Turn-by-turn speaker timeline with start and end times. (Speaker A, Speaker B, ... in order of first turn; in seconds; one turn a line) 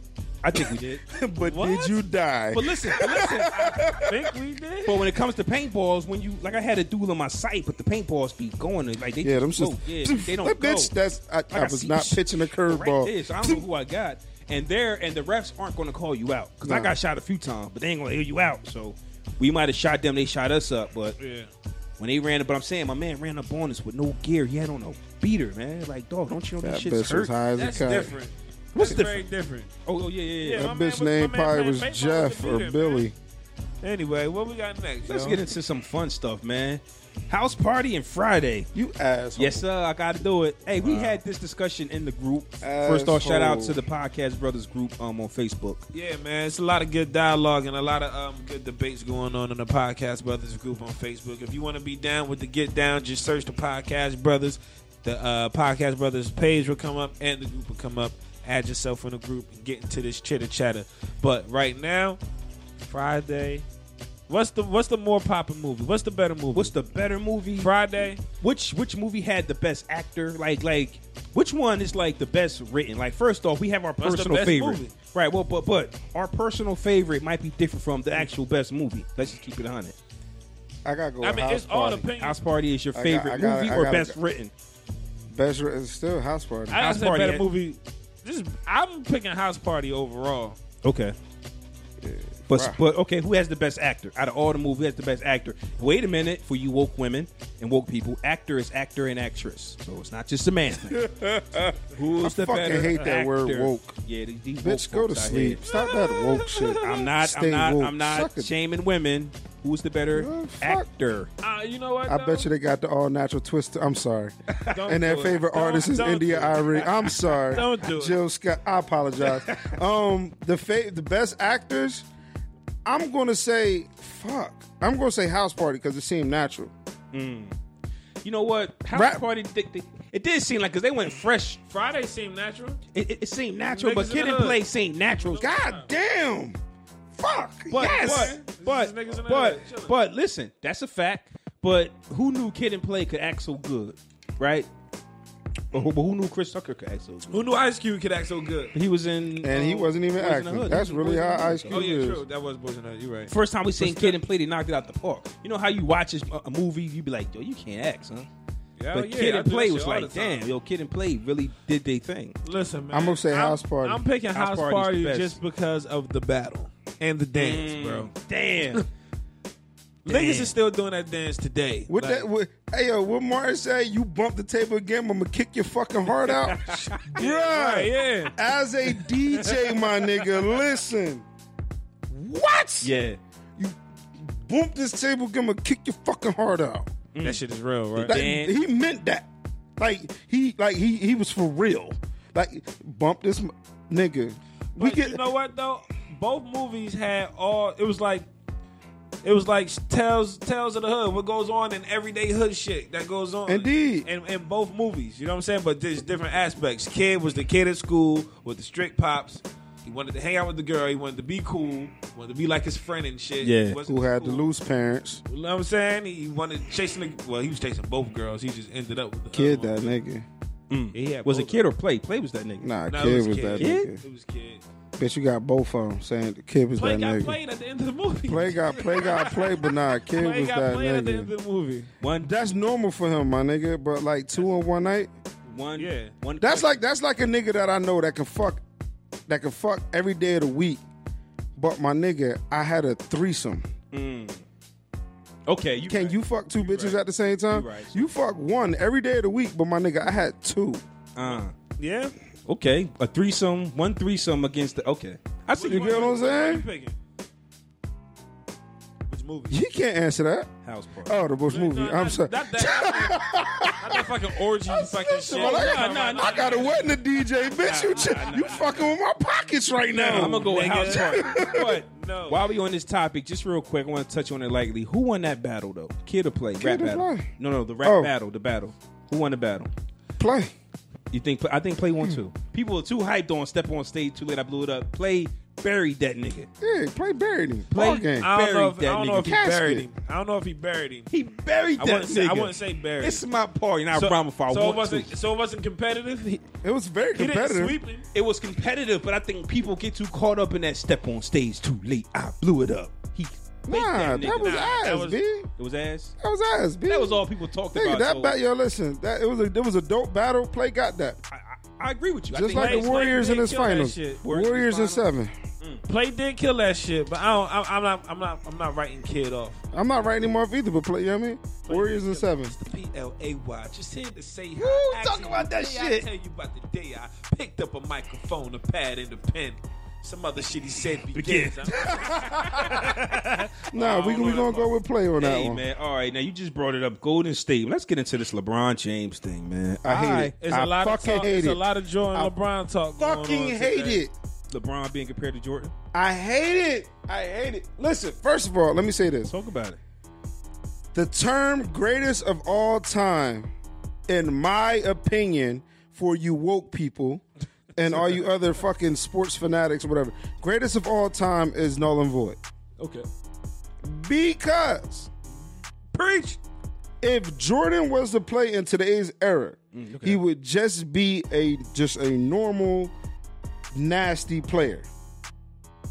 Speaker A: 0.4-1.0
Speaker B: 1.1-4.3
Speaker C: 1.4-2.0
Speaker A: 2.5-4.0
Speaker C: 3.9-5.0
Speaker A: 4.8-10.9
Speaker B: 9.2-13.6
Speaker A: 11.5-21.2
Speaker B: 16.6-16.9
Speaker C: 21.2-21.5
Speaker A: 22.0-27.3
Speaker B: 26.6-28.1
Speaker C: 27.6-29.7
Speaker A: 28.7-29.2
Speaker A: 29.8-30.6
Speaker C: 30.4-33.0
Speaker B: 30.5-33.1
Speaker C: 33.8-35.4
Speaker A: 35.0-38.7
Speaker B: 38.7-39.6
Speaker A: 39.4-45.9
Speaker C: 40.8-41.1
Speaker B: 42.6-43.8
Speaker C: 45.9-62.2
Speaker C: 62.8-63.6
Speaker C: 64.3-66.7
Speaker A: 66.5-79.9
Speaker C: 67.6-68.2
Speaker C: 74.0-74.9
Speaker B: 80.8-82.1
Speaker C: 81.2-82.4
Speaker A: 82.2-84.5
Speaker B: 82.9-84.2
Speaker B: 85.3-86.8
Speaker C: 86.7-90.6
Speaker A: 86.7-87.5
Speaker A: 90.8-91.2
Speaker B: 92.0-92.8
Speaker A: 92.5-101.0
Speaker B: 100.9-104.0
Speaker A: 101.9-105.6
Speaker B: 104.6-108.5
Speaker C: 105.7-106.8
Speaker A: 106.8-111.3
Speaker B: 110.1-110.8
Speaker C: 111.4-112.5
Speaker B: 112.0-122.0
Speaker C: 114.7-118.2
Speaker A: 119.4-119.8
Speaker B: 122.8-126.7
Speaker A: 127.1-127.5
Speaker A: 128.2-131.6
Speaker B: 128.9-129.2
Speaker C: 131.7-132.8
Speaker A: 132.9-135.4
Speaker C: 133.7-134.6
Speaker C: 135.2-135.9
Speaker B: 135.4-136.6
Speaker B: 137.1-138.4
Speaker A: 137.7-144.7
Speaker C: 137.8-139.9
Speaker A: 145.7-147.4
Speaker C: 147.3-148.7
Speaker A: 148.7-151.9
Speaker B: 149.4-152.2
Speaker C: 151.7-154.2
Speaker A: 153.3-158.3
Speaker C: 158.8-160.5
Speaker A: 158.9-162.4
Speaker C: 162.4-168.1
Speaker B: 162.9-164.0
Speaker A: 164.3-165.4
Speaker A: 167.3-168.8
Speaker A: 170.1-170.5
Speaker C: 170.1-172.3
Speaker B: 171.9-181.2
Speaker A: 176.2-177.2
Speaker C: 177.1-178.3
Speaker C: 179.3-180.6
Speaker B: 182.1-182.9
Speaker A: 182.8-183.2
Speaker B: 183.6-186.9
Speaker A: 187.1-187.4
Speaker C: 187.2-188.2
Speaker A: 187.9-188.6
Speaker B: 188.1-189.3
Speaker B: 189.8-195.2
Speaker C: 194.8-198.3
Speaker C: 199.2-214.5
Speaker B: 203.5-204.1
Speaker A: 213.4-213.8
Speaker B: 213.8-215.2
Speaker C: 215.3-220.0
Speaker B: 219.3-220.2
Speaker A: 220.7-222.7
Speaker C: 220.9-221.6
Speaker B: 222.6-224.0
Speaker C: 222.9-224.6
Speaker A: 223.6-223.9
Speaker B: 225.0-227.4
Speaker C: 226.7-231.9
Speaker B: 228.3-231.3
Speaker A: 232.0-232.3
Speaker B: 232.2-235.1
Speaker C: 235.5-236.1
Speaker A: 235.5-236.8
Speaker B: 236.4-238.6
Speaker B: 239.3-240.8
Speaker B: 241.6-243.7
Speaker A: 243.9-244.4
Speaker A: 245.5-246.2
Speaker B: 245.9-250.8
Speaker A: 247.5-248.0
Speaker A: 251.2-251.5
Speaker C: 251.2-252.1
Speaker A: 252.5-256.1
Speaker C: 255.5-256.9
Speaker B: 255.6-256.6
Speaker C: 259.1-259.6
Speaker B: 259.5-260.5
Speaker A: 260.6-261.1
Speaker B: 261.1-264.1
Speaker C: 261.5-267.0
Speaker B: 264.7-271.8
Speaker A: 265.3-267.0
Speaker C: 267.5-268.7
Speaker C: 269.9-272.4
Speaker A: 270.1-279.7
Speaker B: 276.6-277.3
Speaker B: 277.8-278.1
Speaker B: 280.2-280.5
Speaker A: 281.1-286.5
Speaker B: 286.6-288.3
Speaker A: 287.7-289.4
Speaker C: 288.2-291.1
Speaker B: 289.2-289.8
Speaker A: 291.1-295.1
Speaker C: 291.8-293.2
Speaker C: 293.9-296.4
Speaker B: 296.6-297.8
Speaker C: 297.1-298.0
Speaker A: 298.1-304.7
Speaker B: 303.7-305.5
Speaker C: 304.2-305.2
Speaker A: 305.6-306.1
Speaker B: 306.2-311.2
Speaker A: 306.9-308.4
Speaker A: 311.3-313.2
Speaker B: 312.3-315.3
Speaker C: 312.4-314.2
Speaker A: 314.2-315.1
Speaker C: 315.9-319.6
Speaker B: 319.7-322.5
Speaker C: 321.6-334.7
Speaker A: 324.6-326.1
Speaker A: 331.1-333.5
Speaker B: 331.9-332.8
Speaker B: 333.7-335.6
Speaker A: 335.2-340.3
Speaker B: 339.8-342.3
Speaker C: 340.4-344.0
Speaker B: 343.0-344.1
Speaker A: 344.5-345.7
Speaker B: 345.9-349.3
Speaker A: 349.3-349.8
Speaker B: 350.9-353.5
Speaker B: 354.1-357.2
Speaker B: 357.8-362.4
Speaker A: 362.8-363.0
Speaker B: 363.8-365.1
Speaker A: 365.9-366.4
Speaker B: 367.0-372.9
Speaker A: 369.7-370.2
Speaker B: 373.7-374.9